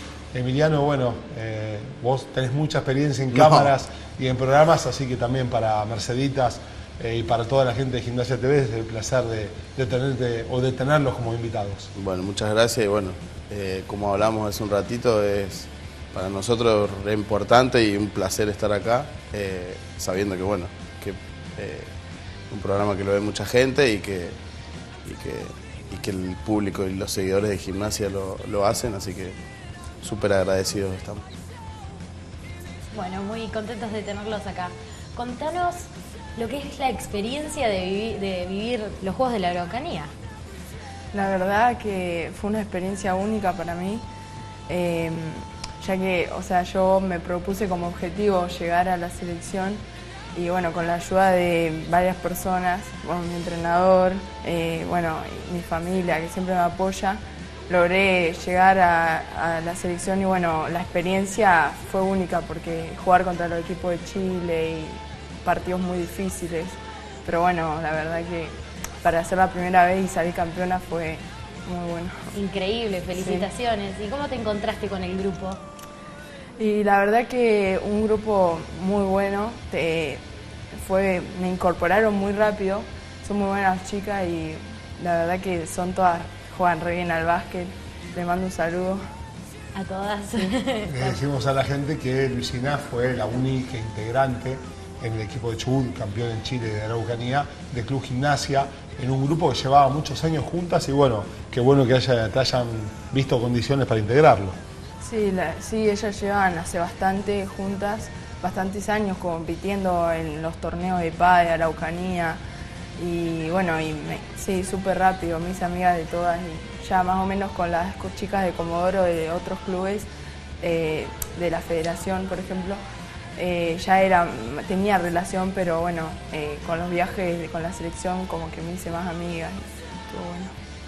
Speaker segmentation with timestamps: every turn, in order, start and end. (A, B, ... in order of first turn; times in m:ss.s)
0:00.3-0:11.9 A
0:03.3-0:03.7 B
0:12.0-0:21.9 B
0:22.5-0:24.4 B
0:25.0-0:29.4 B
0:30.0-0:31.3 B
0:32.9-0:40.1 C
0:41.1-0:44.0 D
0:44.7-0:49.8 D
0:50.3-1:12.3 D
1:12.3-1:15.6 C
1:13.2-1:13.5 D
1:16.6-1:20.2 D
1:20.8-1:29.0 D
1:29.8-1:31.2 C
1:30.8-1:44.6 A
1:45.0-1:52.4 D
1:53.0-2:00.1 D
2:00.6-2:02.8 D
2:03.4-2:10.5 D